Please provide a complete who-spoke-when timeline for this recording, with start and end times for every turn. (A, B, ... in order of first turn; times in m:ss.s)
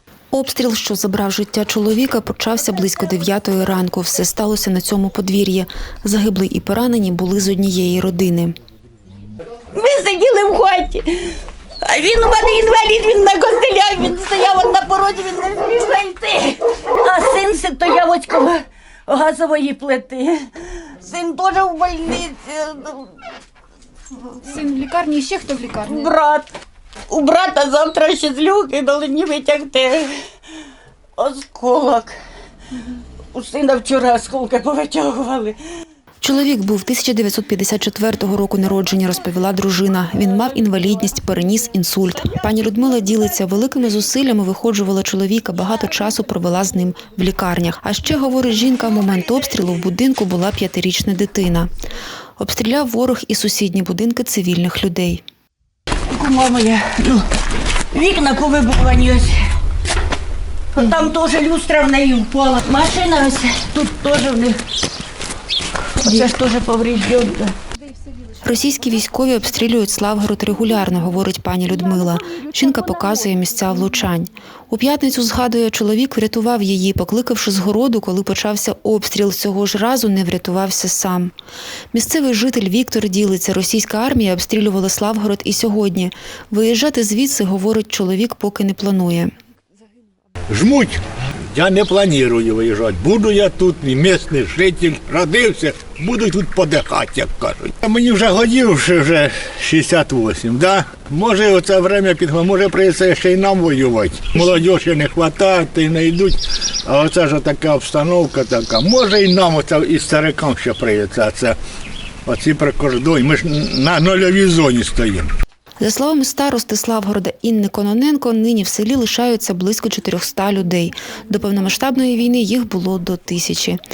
0:00.3-0:08.5 A
0:09.7-0:23.2 B
0:24.4-0:26.1 A
0:25.9-0:26.5 B
0:27.1-0:30.1 B
0:31.2-0:32.1 B
0:33.3-0:35.6 B
0:36.2-0:51.7 A
0:52.4-0:55.2 A
0:56.1-0:57.2 B
0:57.9-0:59.4 B
1:00.7-1:04.6 B
1:06.0-1:07.6 B
1:08.4-1:21.3 A
1:21.9-1:29.3 A
1:30.5-1:31.0 C
1:31.5-1:51.6 C
1:52.2-1:55.3 C
1:55.8-2:03.8 A